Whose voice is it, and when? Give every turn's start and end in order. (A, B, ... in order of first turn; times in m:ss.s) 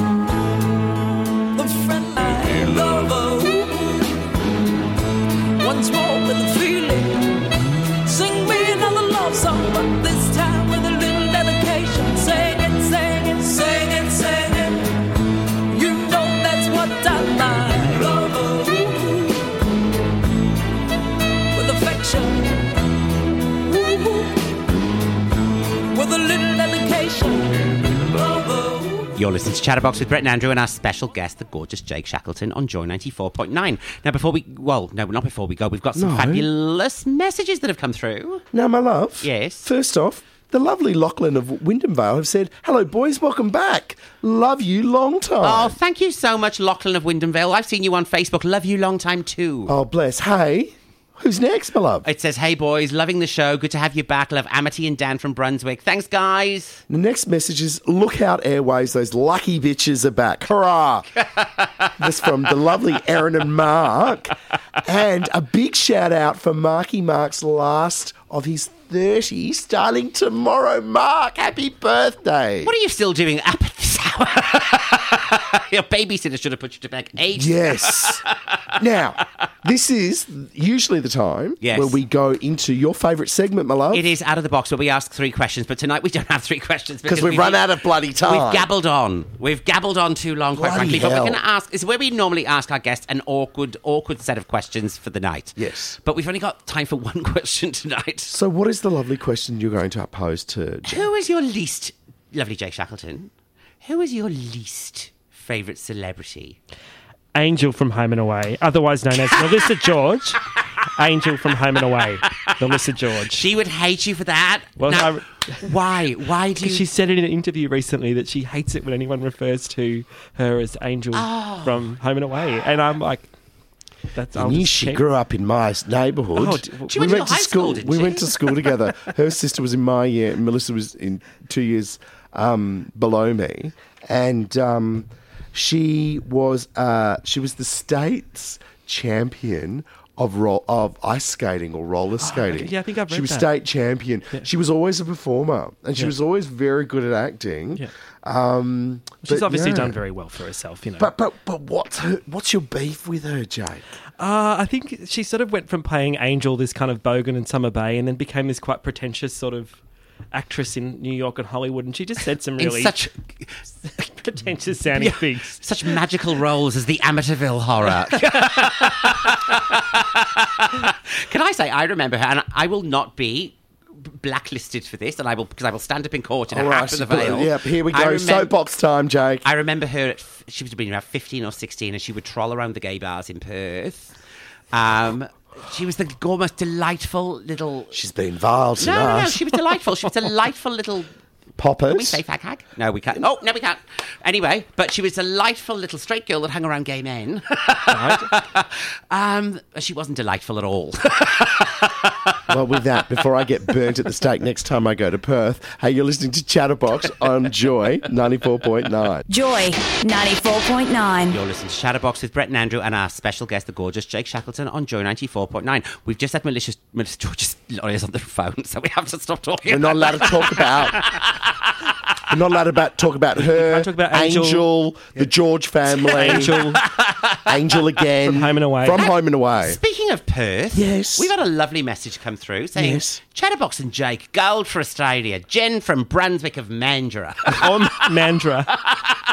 0:01.5-0:04.2 A
0:05.6-0:07.5 A
0:08.0-0:14.9 A
0:15.7-0:19.5 A
0:21.5-0:22.7 A
0:23.6-0:24.6 A
0:25.9-0:29.2 A
0:29.2-0:38.4 B
0:35.9-0:36.5 C
0:38.5-0:45.8 C
0:39.2-0:39.7 B
0:45.4-0:49.7 B
0:49.7-0:52.0 C
0:52.0-0:56.8 B
0:56.9-1:01.1 C
1:02.0-1:12.7 C
1:12.6-1:18.8 B
1:17.3-1:24.0 C
1:21.6-1:22.0 B
1:23.9-1:27.6 B
1:27.0-1:28.7 C
1:28.2-1:38.3 B
1:30.5-1:31.4 C
1:35.6-1:36.0 C
1:38.3-1:41.1 C
1:40.9-1:46.6 B
1:47.3-1:53.4 D
1:53.3-1:56.8 B
1:54.8-1:55.6 D
1:56.6-2:03.3 D
2:01.1-2:01.9 B
2:04.1-2:05.0 D
2:04.3-2:30.0 C
2:06.4-2:07.0 D
2:06.9-2:08.5 B
2:22.2-2:23.5 D
2:29.2-2:31.1 D
2:31.0-2:33.8 C
2:34.2-2:39.8 D
2:40.3-2:42.9 D
2:42.6-2:43.6 B
2:44.0-2:45.6 D
2:45.0-2:58.5 B
2:56.5-2:59.5 C
2:59.4-3:04.1 B
3:04.7-3:07.9 B
3:07.9-3:09.5 C
3:08.8-3:11.1 B
3:11.6-3:12.2 C
3:11.9-3:22.4 B
3:17.9-3:18.3 D
3:22.5-3:29.2 C
3:29.3-3:31.4 E
3:31.3-3:41.5 B
3:39.6-3:41.0 C
3:42.3-3:46.8 C
3:43.3-3:44.7 D
3:46.1-3:47.5 B
3:46.1-3:46.8 D
3:47.4-3:49.8 C
3:48.2-3:49.0 D
3:49.6-3:57.7 B
3:50.7-3:51.3 C
3:52.8-3:53.2 C
3:57.5-3:58.8 D